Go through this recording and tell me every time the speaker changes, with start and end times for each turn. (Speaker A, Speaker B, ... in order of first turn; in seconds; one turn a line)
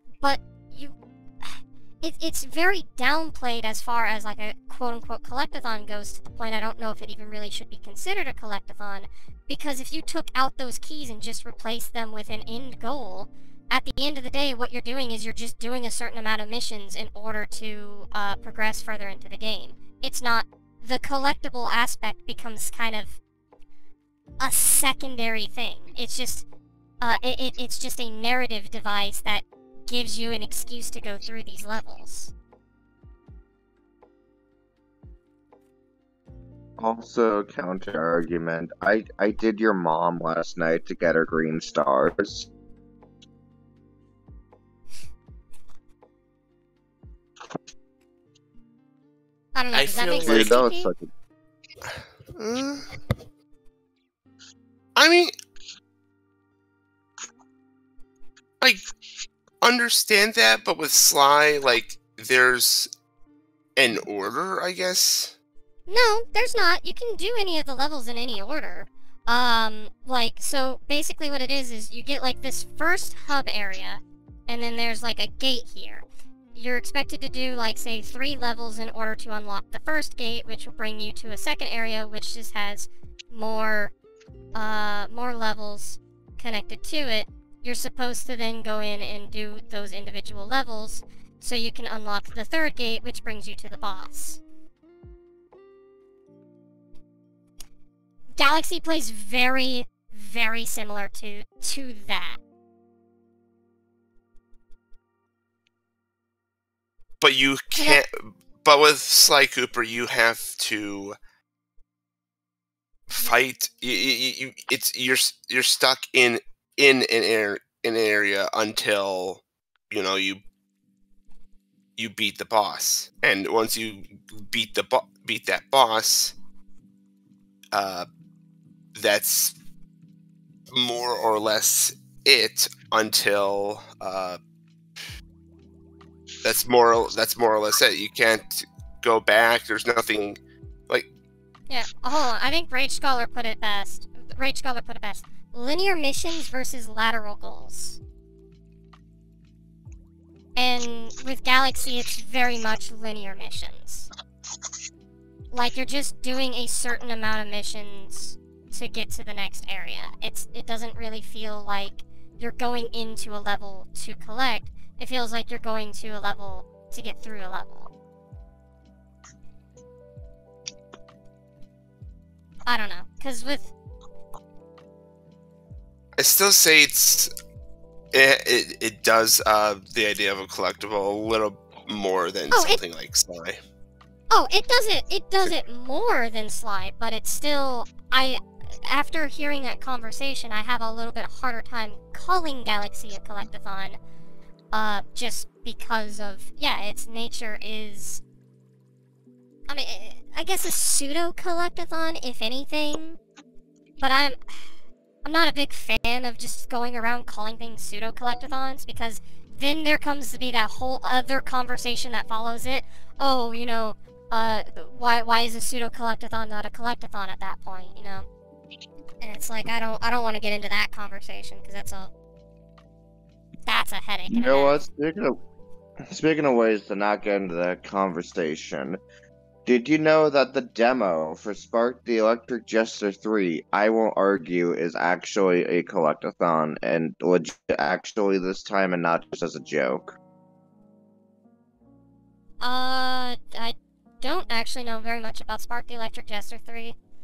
Speaker A: 0.2-23.2
Speaker A: 24.4-26.4
Speaker A: 27.0-32.3
Speaker B: 36.8-42.5
Speaker A: 49.5-50.9
Speaker C: 49.7-50.5
Speaker B: 50.2-51.1
Speaker C: 52.4-52.9
Speaker C: 55.0-55.3
Speaker C: 59.6-62.9
Speaker C: 63.8-65.3
Speaker A: 65.9-76.0
Speaker A: 76.5-83.9
Speaker A: 84.5-94.4
Speaker A: 98.4-102.4
Speaker C: 107.2-108.1
Speaker A: 107.8-108.0
Speaker C: 108.6-111.2
Speaker C: 113.1-120.4
Speaker C: 122.0-126.3
Speaker C: 127.7-128.1
Speaker C: 128.9-129.6
Speaker C: 130.7-134.4
Speaker C: 136.4-140.4
Speaker A: 141.7-148.0
Speaker A: 150.6-154.1
Speaker A: 155.5-167.9
Speaker A: 172.7-173.7
Speaker C: 176.2-177.3
Speaker C: 178.1-183.6
Speaker A: 182.5-182.8
Speaker A: 184.3-194.0
Speaker A: 194.7-198.2
Speaker A: 199.7-203.2
Speaker A: 204.0-204.7
Speaker A: 205.2-218.3
Speaker A: 219.2-222.1
Speaker A: 223.7-224.8
Speaker B: 224.3-225.4
Speaker B: 226.1-229.0
Speaker B: 229.7-240.2
Speaker A: 242.6-247.0